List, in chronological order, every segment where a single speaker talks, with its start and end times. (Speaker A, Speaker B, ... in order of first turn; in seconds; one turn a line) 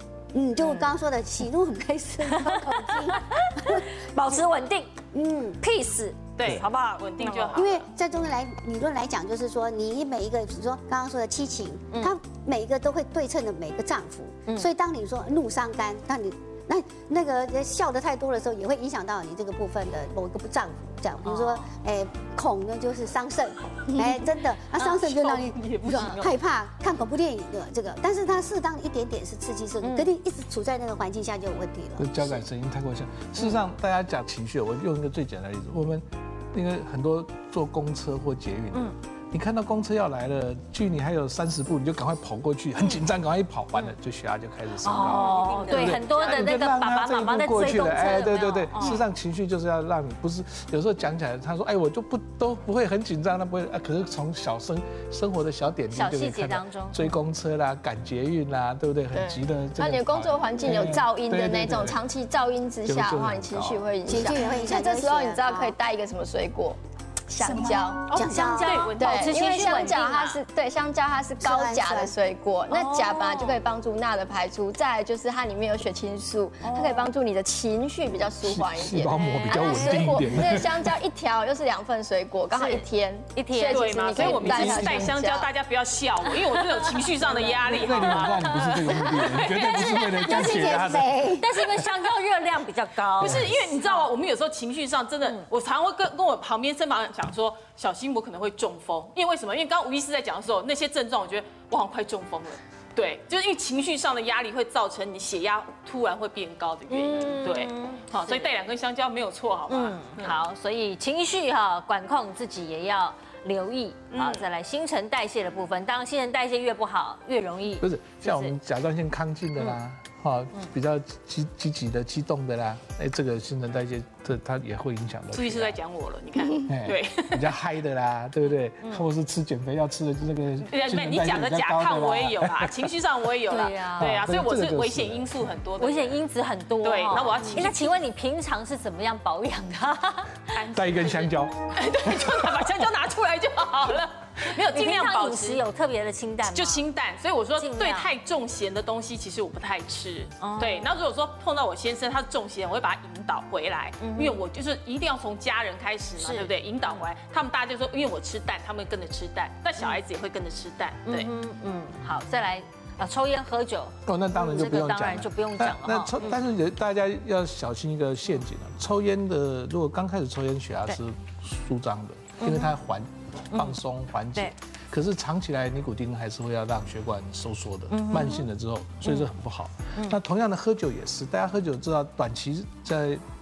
Speaker A: 0.3-3.9
Speaker B: 2.2-5.0
Speaker A: 5.1-5.6
Speaker B: 5.6-7.7
Speaker C: 6.3-7.8
Speaker A: 7.5-32.4
Speaker B: 21.2-21.7
Speaker C: 24.7-26.3
Speaker B: 29.8-30.1
Speaker D: 32.0-62.0
Speaker B: 44.8-49.0
Speaker C: 45.0-46.6
Speaker C: 48.8-49.0
Speaker B: 55.9-57.1
Speaker E: 59.1-68.1
Speaker D: 62.9-63.9
Speaker A: 64.0-65.7
Speaker B: 64.3-64.6
Speaker B: 67.5-70.4
Speaker A: 67.7-68.8
Speaker C: 68.1-70.0
Speaker E: 69.0-85.5
Speaker A: 71.4-72.1
Speaker B: 72.7-73.6
Speaker B: 76.6-77.1
Speaker D: 78.4-80.9
Speaker B: 79.1-80.2
Speaker B: 82.5-85.0
Speaker C: 83.7-89.8
Speaker D: 84.5-85.1
Speaker B: 86.4-94.1
Speaker D: 87.7-91.8
Speaker A: 90.2-91.5
Speaker C: 93.2-110.4
Speaker D: 93.2-93.5
Speaker B: 106.9-108.5
Speaker B: 109.7-118.5
Speaker C: 114.1-114.5
Speaker D: 117.8-125.8
Speaker C: 125.3-127.5
Speaker D: 126.7-132.9
Speaker C: 130.6-136.2
Speaker B: 133.5-134.1
Speaker D: 134.0-135.5
Speaker B: 135.8-140.7
Speaker C: 136.8-138.0
Speaker C: 140.5-145.6
Speaker D: 140.7-142.6
Speaker B: 144.6-146.8
Speaker C: 146.4-161.3
Speaker B: 147.6-148.1
Speaker B: 150.4-150.9
Speaker B: 154.0-154.4
Speaker B: 156.2-157.0
Speaker B: 161.0-166.4
Speaker D: 164.1-183.2
Speaker B: 172.4-172.8
Speaker B: 177.9-178.4